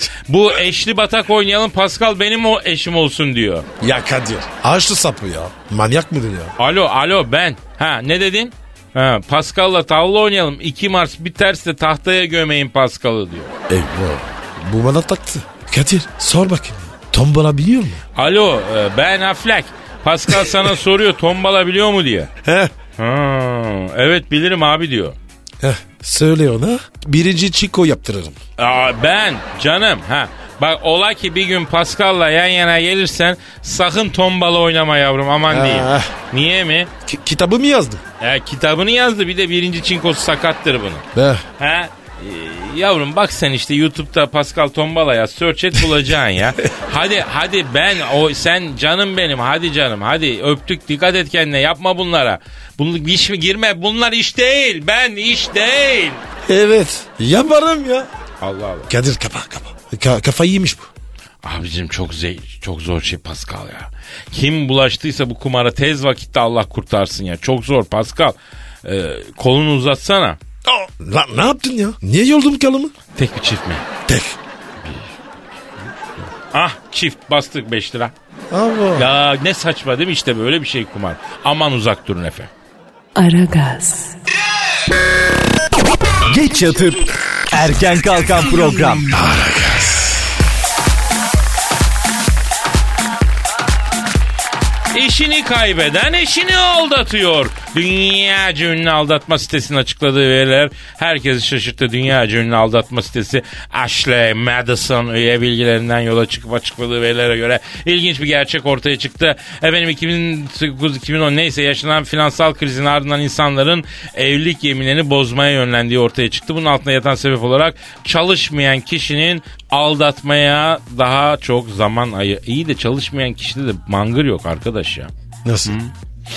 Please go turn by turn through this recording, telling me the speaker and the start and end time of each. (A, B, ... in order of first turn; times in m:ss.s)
0:00.3-0:03.7 A
0:03.8-0:06.6 B
0:06.6-0:13.5 A
0:13.7-0:18.0 B
0:18.2-0:22.3 A
0:22.4-0:22.7 B
0:23.0-0:25.2 A
0:25.6-0:28.4 B
0:28.6-0:36.9 A
0:35.5-0:36.1 B
0:37.0-0:38.0 B
0:38.2-0:41.0 A
0:41.2-0:41.4 B
0:41.6-0:56.2 A
0:56.5-0:58.1 B
0:58.4-0:58.9 A
0:58.9-1:00.9 B
1:01.4-1:10.4 A
1:10.6-1:12.9 B
1:13.2-1:13.9 A
1:14.1-1:14.4 B
1:14.8-1:15.1 A
1:15.8-1:18.1 A
1:18.5-1:19.1 B
1:19.0-1:22.5 A
1:23.2-1:24.2 C
1:26.3-1:29.1 C
1:29.1-1:30.2 B
1:34.9-2:05.1 A
2:05.4-2:05.8 B
2:05.6-2:05.9 A